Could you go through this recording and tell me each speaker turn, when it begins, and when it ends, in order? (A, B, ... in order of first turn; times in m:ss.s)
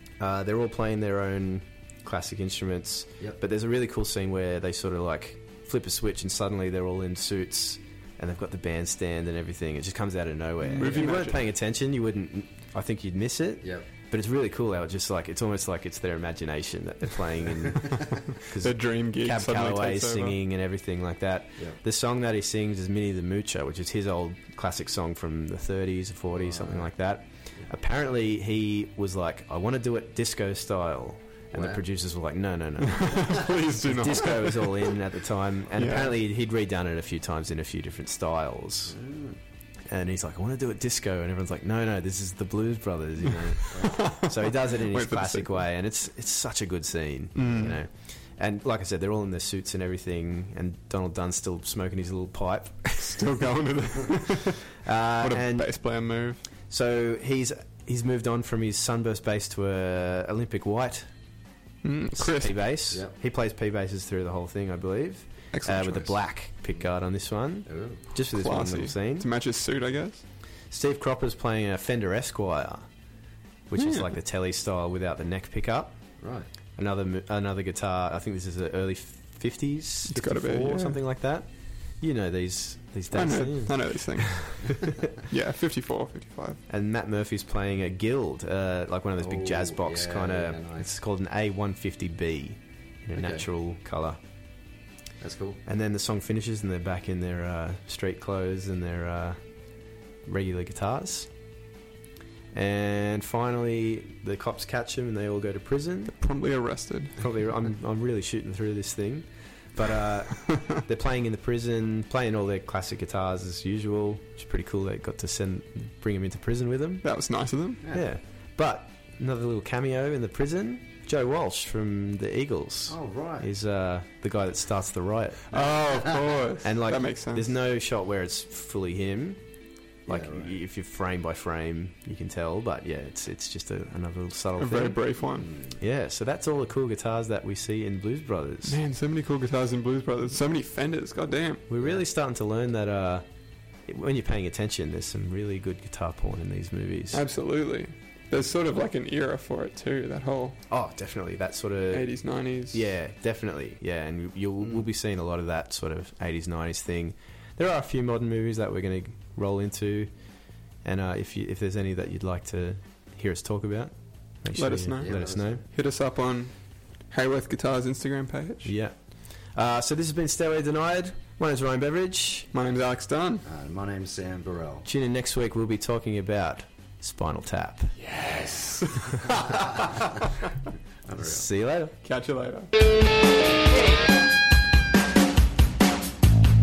0:00.2-0:38.9 A
0:10.6-0:11.5 B
0:13.6-0:13.9 C
0:17.9-0:20.4 B
0:26.4-0:26.9 C
0:31.5-0:31.8 C
0:32.8-0:35.0 B
0:35.7-0:36.2 B
0:38.9-0:39.4 C
0:39.9-0:53.2 A
0:43.4-0:45.6 B
0:43.7-0:44.0 C
0:47.4-0:47.8 B
0:53.0-0:56.4 B
0:54.8-0:55.7 A
0:56.7-1:01.1 A
1:01.8-1:02.6 B
1:02.2-1:09.3 A
1:02.9-1:03.2 C
1:05.5-1:06.0 B
1:05.7-1:06.1 C
1:07.6-1:08.0 C
1:08.3-1:10.2 B
1:10.7-1:12.9 A
1:13.7-1:16.0 A
1:13.8-1:14.1 B
1:16.2-1:16.5 C
1:16.8-1:21.5 A
1:20.1-1:21.0 B
1:22.0-1:23.9 A
1:23.1-1:26.6 B
1:24.5-1:25.0 A
1:26.7-1:34.2 A
1:29.2-1:30.9 C
1:33.2-1:33.5 C
1:35.2-1:35.6 C
1:35.6-1:39.4 A
1:40.3-1:41.3 A
1:42.5-1:46.1 A
1:46.1-1:47.2 B
1:47.2-1:57.0 A
1:57.0-1:57.8 B
1:57.8-1:58.1 C
1:57.9-2:05.4 A
2:02.9-2:03.5 C
2:05.5-2:07.5 B
2:06.6-2:09.4 A
2:10.1-2:15.0 A
2:10.1-2:10.6 C
2:14.6-2:15.5 B
2:15.4-2:15.8 C
2:15.8-2:18.8 A
2:18.6-2:21.6 B
2:21.7-2:23.2 A
2:21.8-2:22.0 C
2:23.9-2:27.2 A
2:27.1-2:30.6 B
2:30.7-2:32.1 A
2:31.9-2:32.9 B
2:32.7-2:40.1 A
2:40.8-2:45.6 A
2:44.5-2:45.2 B
2:44.9-2:45.6 C
2:45.7-2:46.5 B
2:47.1-2:48.7 B
2:48.6-2:48.9 A
2:49.6-2:52.5 A
2:52.5-2:53.4 B
2:53.4-2:54.9 C
2:54.8-2:57.9 A
2:58.0-3:00.5 B
3:01.1-3:01.5 C
3:01.2-3:01.9 A
3:02.0-3:02.7 B